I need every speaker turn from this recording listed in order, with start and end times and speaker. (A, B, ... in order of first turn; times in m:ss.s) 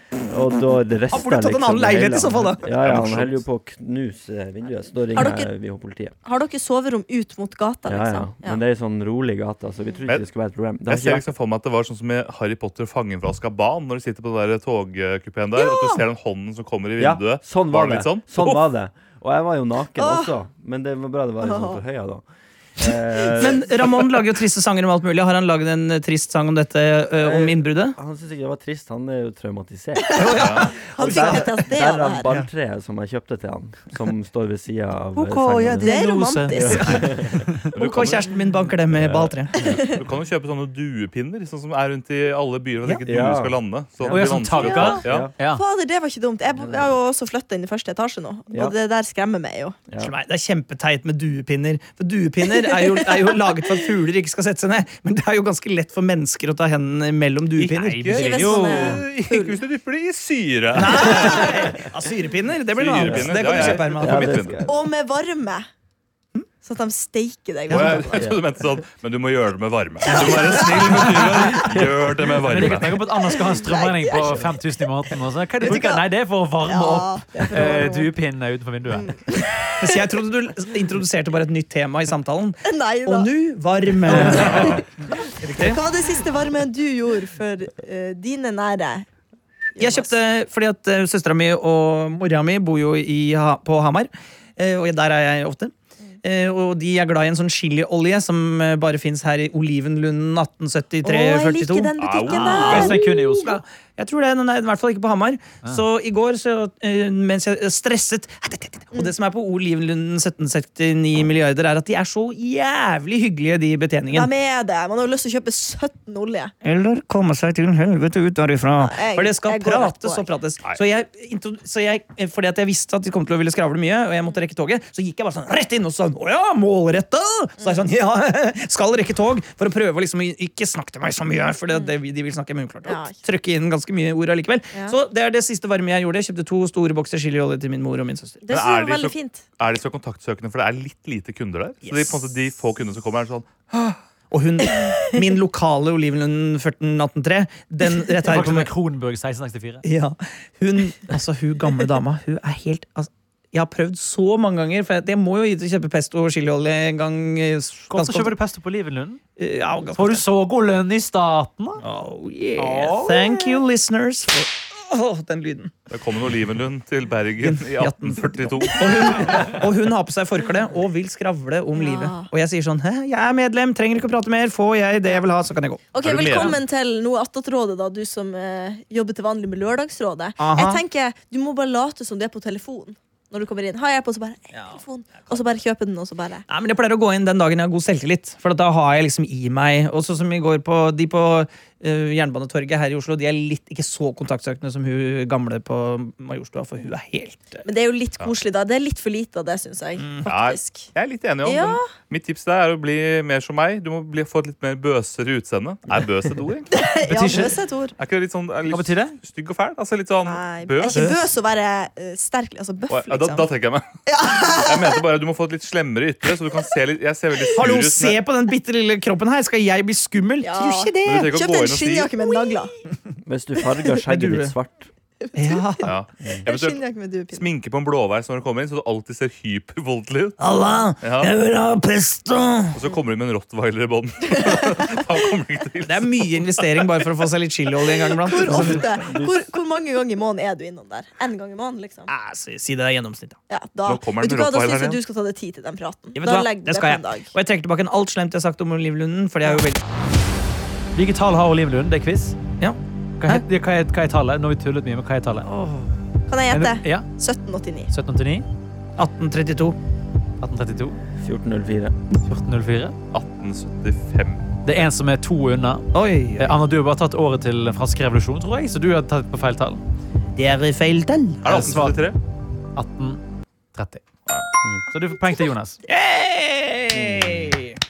0:00.3-0:06.2 A
0:01.1-0:02.7 B
0:02.7-0:03.4 C
0:05.2-0:05.5 D
0:06.2-0:08.6 D
0:07.9-0:11.3 A
0:10.9-0:18.6 C
0:15.6-0:16.0 D
0:17.0-0:22.2 A
0:20.0-0:20.3 D
0:21.4-0:21.8 D
0:22.8-0:23.9 A
0:23.4-0:28.0 B
0:27.2-0:35.9 A
0:30.1-0:30.4 D
0:30.2-0:31.5 B
0:30.4-0:30.7 C
0:30.9-0:32.3 D
0:35.2-0:37.5 E
0:35.8-0:37.0 B
0:35.8-0:37.1 D
0:36.5-0:37.5 A
0:37.7-0:39.6 B
0:37.8-0:38.3 C
0:38.9-0:39.8 A
0:39.6-0:39.9 D
0:39.9-0:45.3 C
0:43.1-0:45.3 A
0:44.1-0:45.6 E
0:44.6-0:49.8 D
0:46.6-0:47.0 A
0:50.0-0:58.9 B
0:52.5-0:53.3 D
0:57.6-1:01.7 C
0:58.1-0:59.6 D
0:58.2-0:59.0 E
1:00.8-1:04.4 B
1:01.2-1:01.4 D
1:02.7-1:04.6 C
1:03.0-1:04.8 A
1:04.6-1:05.7 D
1:06.6-1:08.3 D
1:07.7-1:08.0 B
1:07.7-1:13.0 C
1:10.0-1:11.8 D
1:12.5-1:19.1 E
1:13.1-1:14.5 D
1:15.6-1:16.0 D
1:16.7-1:18.1 D
1:19.0-1:20.1 D
1:19.8-1:24.8 B
1:22.7-1:23.3 D
1:24.1-1:29.1 D
1:25.4-1:25.8 B
1:29.8-1:30.2 D
1:29.8-1:54.3 B
1:41.0-1:43.0 D
1:42.0-1:42.9 C
1:42.6-1:43.6 E
1:54.1-1:56.5 D
1:56.6-2:18.4 B
1:58.8-2:00.3 D
2:12.8-2:13.2 D
2:18.4-2:19.4 D
2:18.5-2:24.0 C
2:21.8-2:22.2 B
2:24.3-2:28.7 B
2:28.2-2:29.8 E
2:29.8-2:38.3 B
2:37.9-2:39.2 E
2:39.4-2:40.2 B
2:40.0-2:41.8 E
2:41.8-2:45.7 B
2:42.6-2:43.6 E
2:45.9-2:49.5 C
2:47.4-2:56.5 B
2:51.7-2:52.3 D
2:55.9-3:06.4 D
2:56.0-2:56.6 C
3:00.4-3:00.8 B
3:04.5-3:05.4 B
3:06.5-3:17.6 B
3:17.6-3:20.9 D
3:20.0-3:20.3 B
3:20.3-3:26.7 C
3:21.4-3:21.8 D
3:26.7-3:28.0 D
3:27.1-3:27.6 E
3:28.0-3:31.1 C
3:28.7-3:29.2 E
3:30.2-3:33.5 D
3:30.9-3:31.2 B
3:32.9-3:33.8 C
3:34.1-3:35.0 D
3:34.5-3:38.2 C
3:37.5-3:41.3 B
3:40.4-3:42.7 D
3:41.0-3:42.1 C
3:43.2-3:44.9 A
3:44.0-3:44.5 B
3:45.2-3:45.8 D
3:45.4-3:45.9 B
3:45.8-3:46.8 C
3:46.4-3:47.5 D
3:47.3-3:50.4 C
3:50.4-3:52.8 B
3:51.0-3:51.3 C
3:52.7-3:56.9 C
3:54.3-3:54.8 D
3:55.8-3:59.1 B
3:58.2-4:02.1 D
4:02.1-4:03.4 B
4:03.5-4:07.3 D
4:03.9-4:05.0 C
4:06.2-4:09.8 B
4:11.0-4:12.4 E
4:12.6-4:13.4 B
4:13.2-4:15.5 E
4:15.5-4:15.9 B
4:16.3-4:17.9 D
4:16.5-4:17.1 E
4:17.9-4:18.5 E
4:19.0-4:19.8 B
4:20.4-4:21.0 E
4:21.2-4:22.0 A
4:22.2-4:23.0 E
4:23.1-4:24.4 C
4:24.6-4:29.8 E
4:25.9-4:26.6 B
4:30.4-4:31.8 B
4:31.4-4:32.2 C
4:31.5-4:32.0 E
4:32.8-4:33.2 E
4:33.7-4:34.0 E
4:34.9-4:35.8 E
4:35.9-4:37.8 B
4:36.9-4:37.6 A